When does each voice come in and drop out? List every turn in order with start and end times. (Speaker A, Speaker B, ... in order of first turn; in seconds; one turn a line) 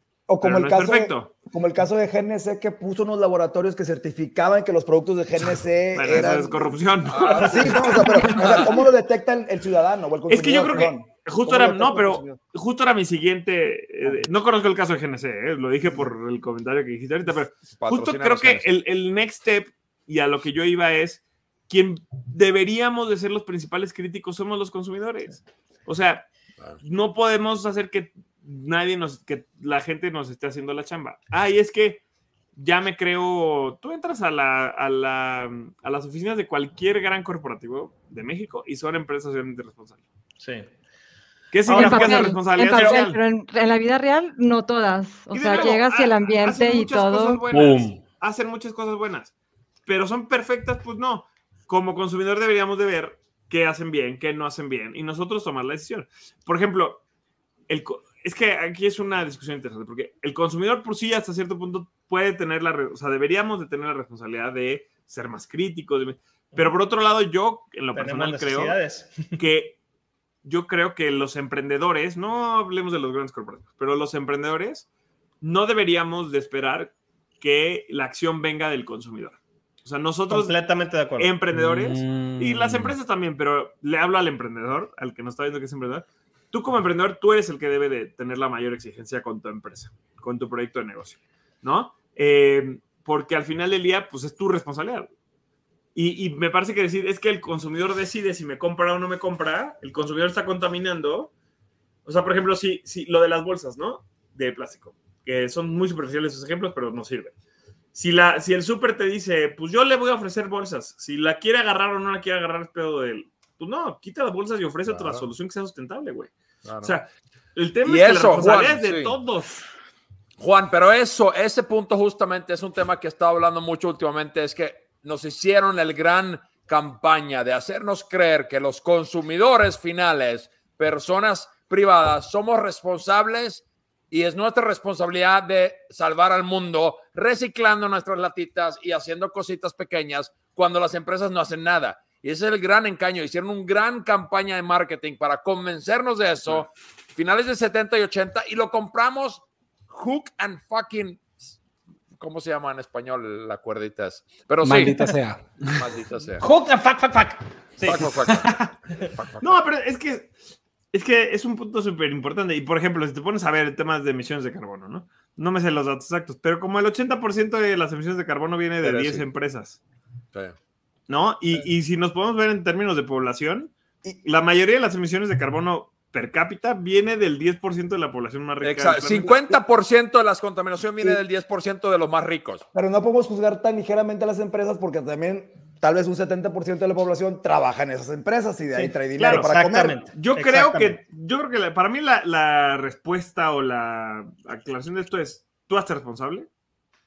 Speaker A: 0.3-12.4
Speaker B: 0.4-1.3
Speaker B: 5.9-8.7
Speaker C: 7.1-8.7
Speaker B: 10.3-26.3
Speaker C: 17.8-18.7
Speaker B: 26.8-32.0
Speaker B: 32.6-40.0
Speaker D: 40.4-40.7
Speaker B: 41.5-43.2
Speaker D: 41.7-43.1
Speaker E: 41.7-47.4
Speaker B: 45.3-49.3
Speaker F: 47.5-48.0
Speaker B: 49.9-57.0
Speaker B: 57.7-68.8
Speaker D: 68.0-69.3
Speaker B: 69.3-69.8
Speaker B: 70.4-74.9
Speaker B: 75.4-80.6
Speaker D: 80.3-81.3
Speaker B: 81.2-95.1
Speaker F: 81.5-82.9
Speaker B: 96.0-101.3
Speaker B: 102.1-107.3
Speaker B: 107.9-116.3
Speaker C: 114.8-115.3
Speaker C: 116.7-117.0
Speaker B: 116.8-119.6
Speaker C: 117.9-119.2
Speaker C: 120.4-151.6
Speaker C: 152.2-155.1
Speaker F: 154.6-155.8
Speaker C: 155.7-156.5
Speaker D: 156.4-158.6
Speaker C: 157.8-159.5
Speaker B: 159.4-160.3
Speaker B: 160.9-169.8
Speaker C: 168.8-169.3
Speaker B: 171.1-179.3
Speaker C: 178.6-182.7
Speaker A: 182.7-190.0
Speaker D: 188.7-191.0
Speaker B: 189.2-189.5
Speaker B: 190.1-196.5